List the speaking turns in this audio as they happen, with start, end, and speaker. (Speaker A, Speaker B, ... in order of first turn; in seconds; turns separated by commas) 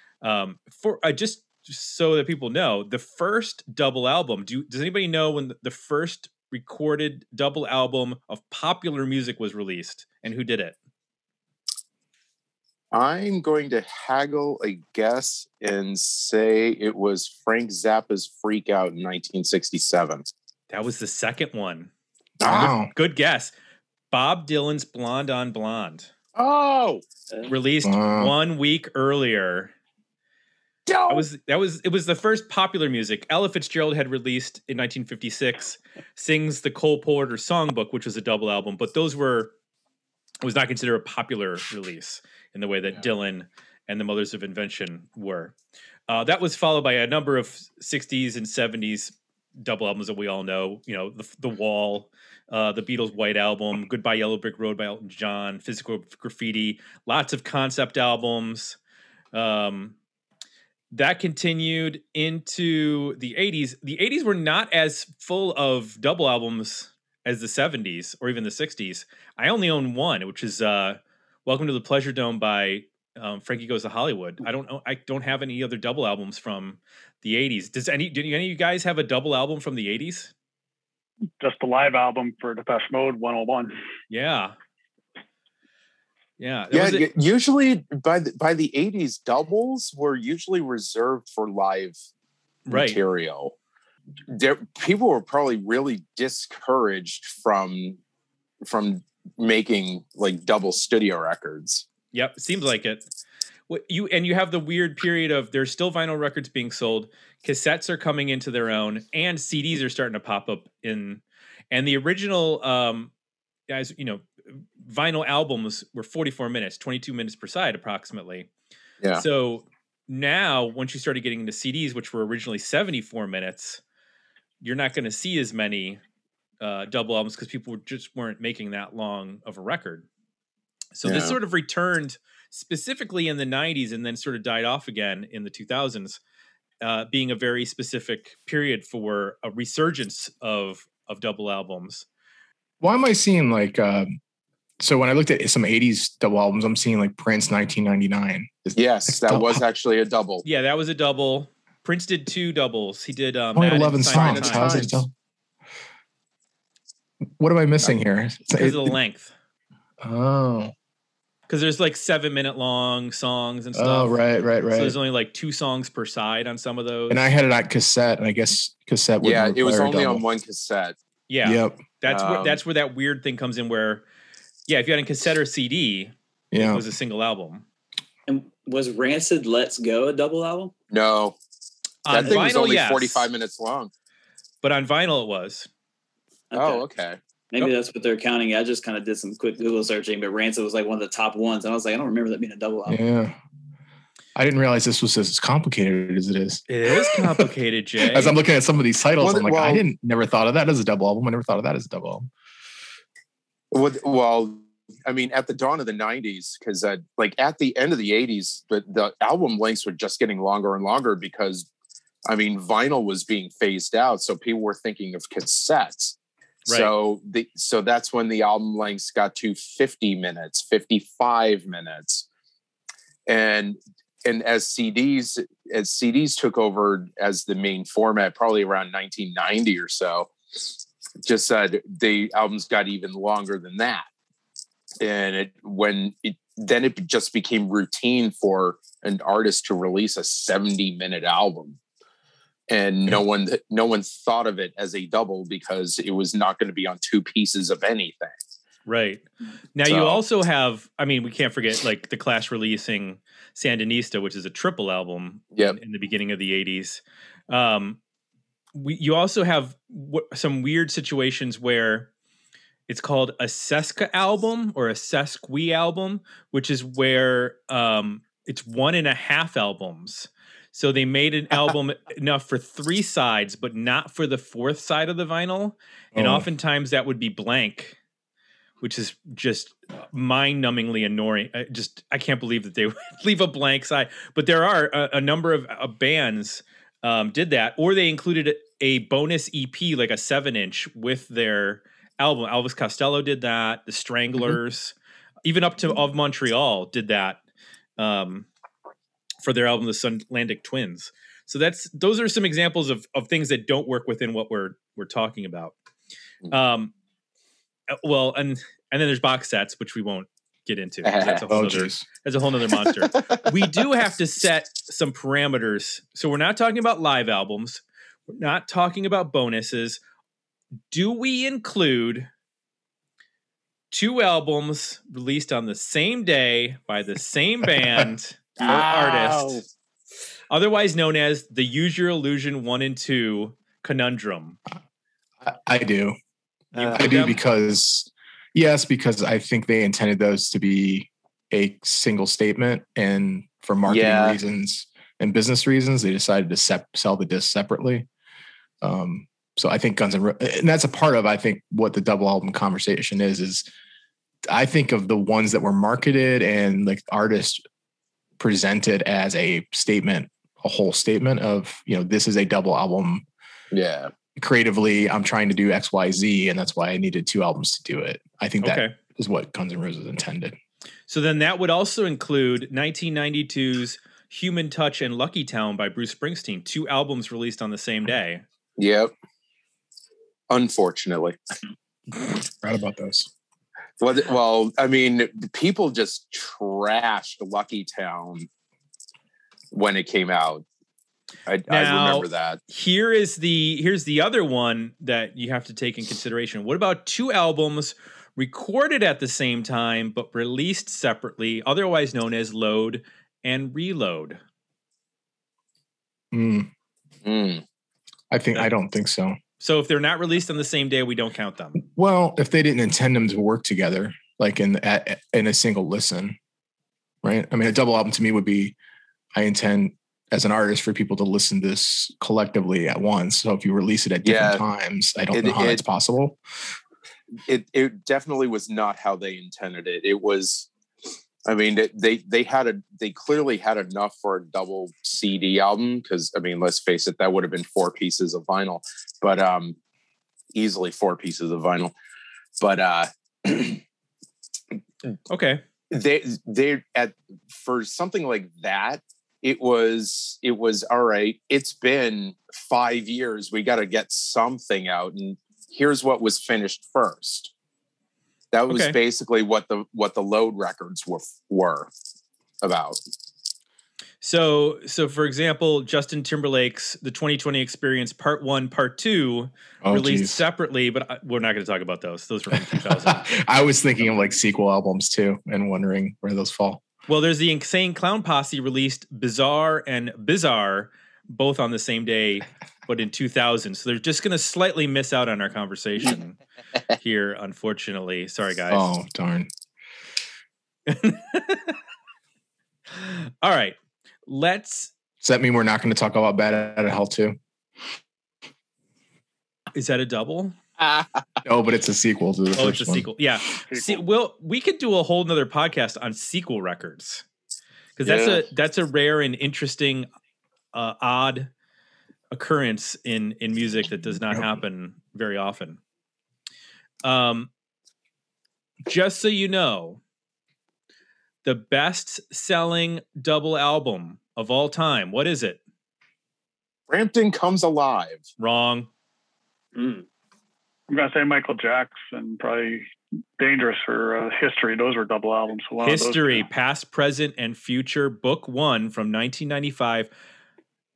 Speaker A: 0.2-10.8, Speaker B: 12.9-20.3, Speaker A: 20.7-21.9, Speaker B: 22.4-22.7, Speaker C: 22.4-22.9, Speaker A: 22.5-23.5, Speaker A: 24.1-26.1, Speaker B: 26.4-27.0, Speaker A: 27.5-29.7, Speaker C: 27.8-28.3, Speaker B: 30.9-31.3, Speaker A: 31.1-39.5, Speaker A: 40.4-45.5, Speaker A: 46.1-58.8, Speaker A: 59.3-60.0, Speaker A: 60.9-80.3, Speaker D: 81.4-83.8, Speaker A: 84.1-84.6, Speaker A: 86.4-87.1, Speaker B: 86.7-92.0, Speaker A: 92.7-93.0, Speaker B: 92.7-93.5, Speaker B: 94.3-98.0, Speaker B: 98.7-101.9, Speaker A: 102.1-103.0, Speaker A: 103.7-113.1, Speaker A: 113.7-118.5, Speaker A: 119.2-123.8, Speaker A: 124.6-126.0, Speaker A: 126.6-130.1, Speaker A: 131.0-136.2, Speaker B: 131.1-131.4, Speaker A: 136.8-142.1, Speaker C: 142.8-144.2, Speaker C: 144.8-149.6, Speaker B: 148.8-150.4, Speaker A: 150.4-154.9, Speaker C: 153.6-155.1, Speaker B: 154.1-155.1, Speaker C: 157.4-159.0, Speaker A: 158.5-159.3, Speaker C: 160.0-160.7, Speaker A: 161.5-164.2, Speaker C: 163.7-164.9, Speaker A: 164.7-167.3, Speaker C: 167.1-170.2, Speaker B: 169.2-171.0, Speaker A: 171.3-174.0, Speaker C: 171.4-171.9, Speaker B: 172.1-172.6, Speaker A: 174.7-177.7, Speaker C: 176.5-176.8, Speaker E: 178.3-180.7, Speaker B: 180.9-181.4, Speaker A: 182.1-183.3, Speaker B: 182.1-183.9, Speaker A: 184.6-185.7, Speaker E: 186.5-186.8, Speaker B: 186.6-187.2, Speaker E: 187.5-193.0, Speaker C: 192.9-193.4, Speaker C: 194.3-197.4, Speaker A: 196.7-198.4, Speaker C: 198.1-202.3, Speaker B: 199.2-199.8, Speaker B: 203.7-211.7, Speaker B: 212.3-216.2, Speaker A: 216.7-216.9, Speaker B: 216.7-222.3, Speaker B: 223.3-230.3, Speaker B: 231.3-234.1, Speaker B: 235.0-241.8, Speaker B: 242.7-248.3, Speaker A: 248.9-258.0, Speaker B: 249.8-250.2, Speaker A: 258.8-262.1, Speaker A: 262.9-278.0, Speaker C: 276.1-276.5, Speaker A: 278.8-297.4, Speaker A: 298.0-298.5, Speaker A: 299.4-305.7, Speaker A: 306.5-306.9, Speaker A: 307.9-320.0, Speaker B: 311.0-311.5, Speaker C: 311.5-312.1, Speaker A: 320.9-322.3, Speaker A: 323.9-329.6, Speaker B: 328.6-329.6, Speaker A: 330.5-334.6, Speaker C: 335.4-336.2, Speaker A: 336.7-337.4, Speaker B: 336.8-337.4, Speaker C: 336.9-348.1, Speaker B: 343.9-344.4, Speaker C: 348.8-353.6, Speaker C: 354.5-357.6, Speaker C: 358.4-363.3, Speaker B: 363.7-364.1, Speaker C: 364.4-370.6, Speaker A: 368.6-368.9, Speaker A: 371.1-378.4, Speaker B: 378.8-379.1, Speaker B: 380.5-381.4, Speaker C: 382.2-383.3, Speaker B: 384.0-388.5, Speaker B: 389.7-390.6, Speaker B: 391.5-392.6, Speaker A: 391.7-404.4, Speaker C: 406.3-406.7, Speaker B: 407.2-407.6, Speaker C: 408.3-409.4, Speaker A: 409.6-411.8, Speaker C: 411.8-416.4, Speaker C: 417.2-418.8, Speaker C: 419.3-426.4, Speaker B: 424.2-424.6, Speaker B: 425.3-425.8, Speaker B: 427.5-430.7, Speaker B: 431.5-439.8, Speaker B: 440.5-441.9, Speaker B: 442.6-443.8, Speaker A: 445.3-445.6, Speaker B: 445.9-457.5, Speaker B: 458.5-461.9, Speaker A: 458.7-459.0, Speaker B: 462.6-463.0, Speaker A: 464.2-473.3, Speaker C: 469.8-470.4, Speaker C: 472.6-476.8, Speaker A: 477.1-486.4, Speaker A: 487.0-488.9, Speaker C: 488.7-489.5, Speaker A: 490.9-491.8, Speaker A: 492.9-493.8, Speaker A: 494.3-494.9, Speaker C: 495.2-497.4, Speaker A: 499.8-500.6, Speaker B: 500.8-501.2, Speaker C: 501.4-503.1, Speaker A: 502.6-507.3, Speaker D: 503.7-504.0, Speaker A: 508.0-510.1, Speaker B: 508.0-508.4, Speaker A: 510.7-511.5, Speaker A: 512.3-515.8, Speaker C: 514.3-514.6, Speaker A: 517.0-517.5, Speaker A: 518.9-520.0, Speaker A: 521.4-525.6, Speaker B: 526.9-528.2, Speaker A: 528.4-528.9, Speaker E: 529.8-530.0, Speaker D: 530.9-532.9, Speaker D: 533.4-536.5, Speaker A: 535.8-540.1